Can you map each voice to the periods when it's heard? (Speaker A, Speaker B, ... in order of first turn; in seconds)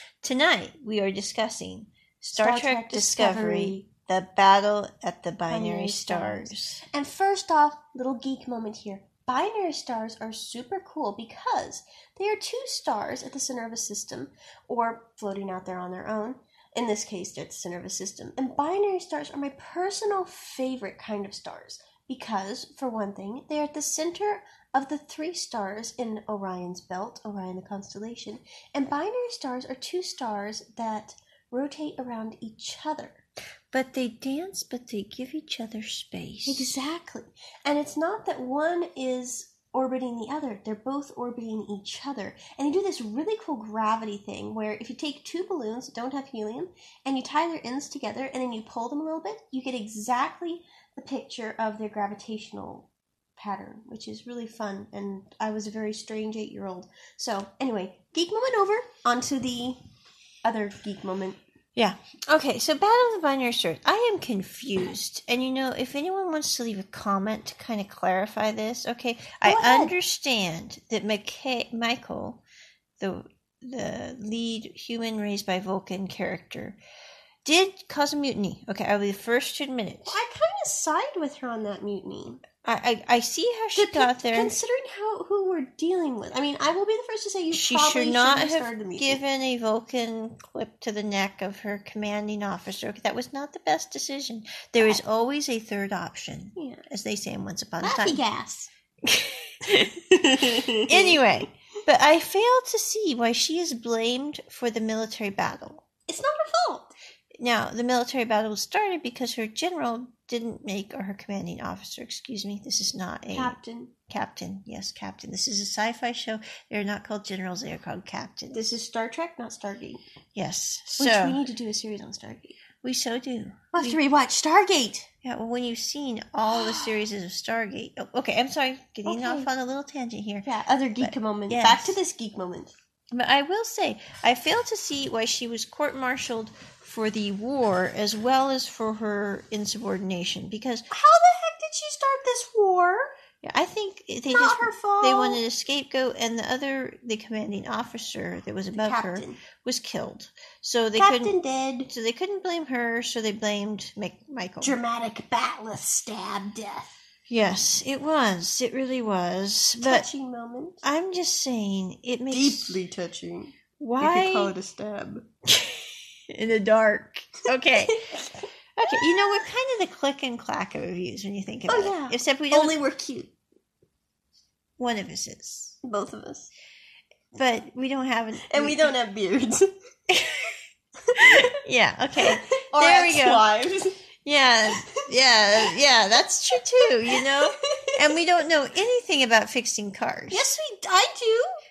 Speaker A: 0.2-6.8, 33.7-36.8, 61.8-72.4, 73.0-76.8, 77.4-80.2, 82.6-84.6, 87.5-98.2, 99.0-100.0, 100.7-105.8, 107.4-118.8, 120.3-121.4, 122.8-124.0, 125.2-130.5, 131.0-132.0, 133.1-140.8, 143.4-154.8, 157.3-160.1, 160.8-162.8, 163.8-164.5, 165.6-168.1, 168.8-172.8, 174.8-175.8, 177.3-178.9, 180.1-180.5, 181.2-183.4, 184.2-190.5
Speaker B: 2.4-3.8, 5.5-33.2, 36.5-59.8, 60.4-61.4, 69.4-69.9, 80.0-82.4, 83.7-89.2, 96.5-96.8, 97.8-98.7, 100.1-101.2, 106.1-106.9, 113.3-113.9, 118.5-120.0, 120.9-122.6, 123.7-125.1, 126.5-127.0, 129.1-129.5, 130.4-132.7, 140.9-143.1, 144.3-145.4, 148.8-149.4, 150.9-151.9, 154.6-156.9, 159.8-160.8, 162.3-165.3, 167.9-168.2, 171.7-173.3, 175.8-176.5, 178.5-179.7, 181.1-181.4, 182.2-184.0, 186.5-188.2, 190.3-191.5